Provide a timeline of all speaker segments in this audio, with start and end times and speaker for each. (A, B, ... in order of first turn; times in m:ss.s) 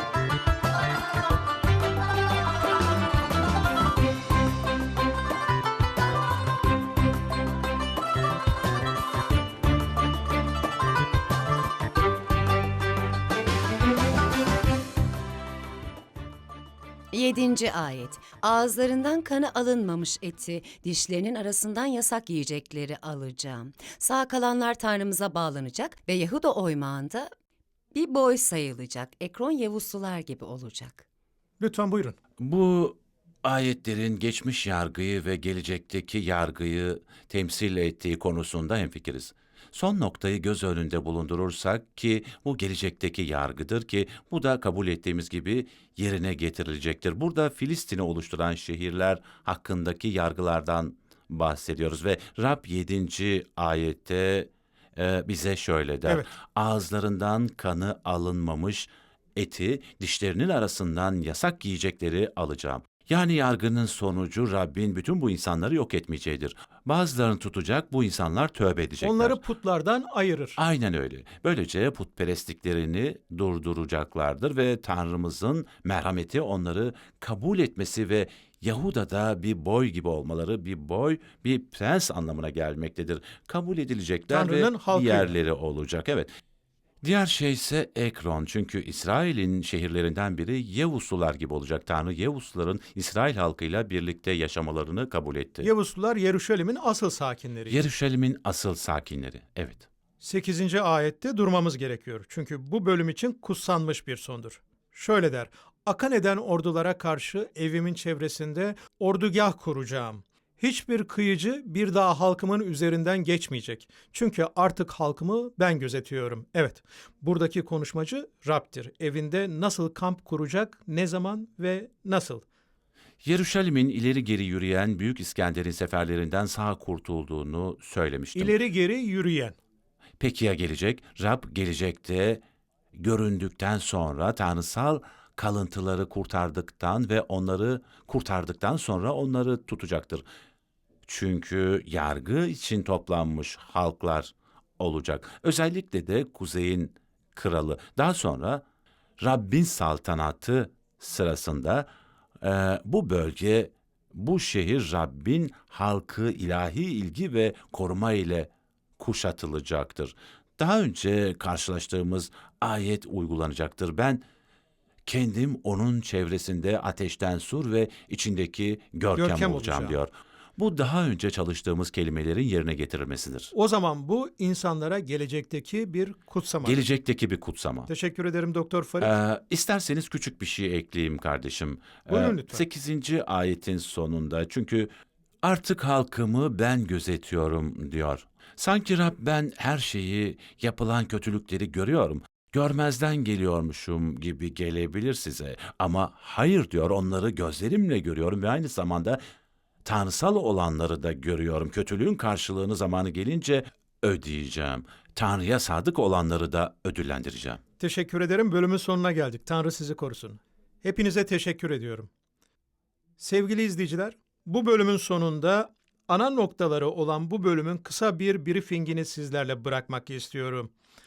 0:17.1-0:27.3 A
0:27.9-0:31.0 A
0:31.6-0:32.2 B
0:32.4-1:09.4 C
1:09.0-1:10.6 B
1:10.6-1:26.3 C
1:24.3-1:25.4 B
1:27.0-1:35.7 C
1:35.6-1:37.8 B
1:37.7-1:39.9 C
1:40.2-2:02.4 B
2:03.2-2:08.6 C
2:08.4-2:09.6 B
2:10.2-2:12.4 C
2:12.9-2:20.2 C
2:21.0-2:28.6 C
2:29.2-2:31.9 C
2:32.4-2:44.2 C
2:45.1-2:53.5 C
2:49.2-2:50.0 B
2:53.5-2:56.8 B
2:56.6-2:57.9 C
2:57.9-2:59.2 B
2:59.0-3:04.9 C
3:02.1-3:02.6 B
3:05.4-3:19.2 C
3:19.8-3:27.6 C
3:27.8-3:32.1 B
3:33.2-3:40.7 B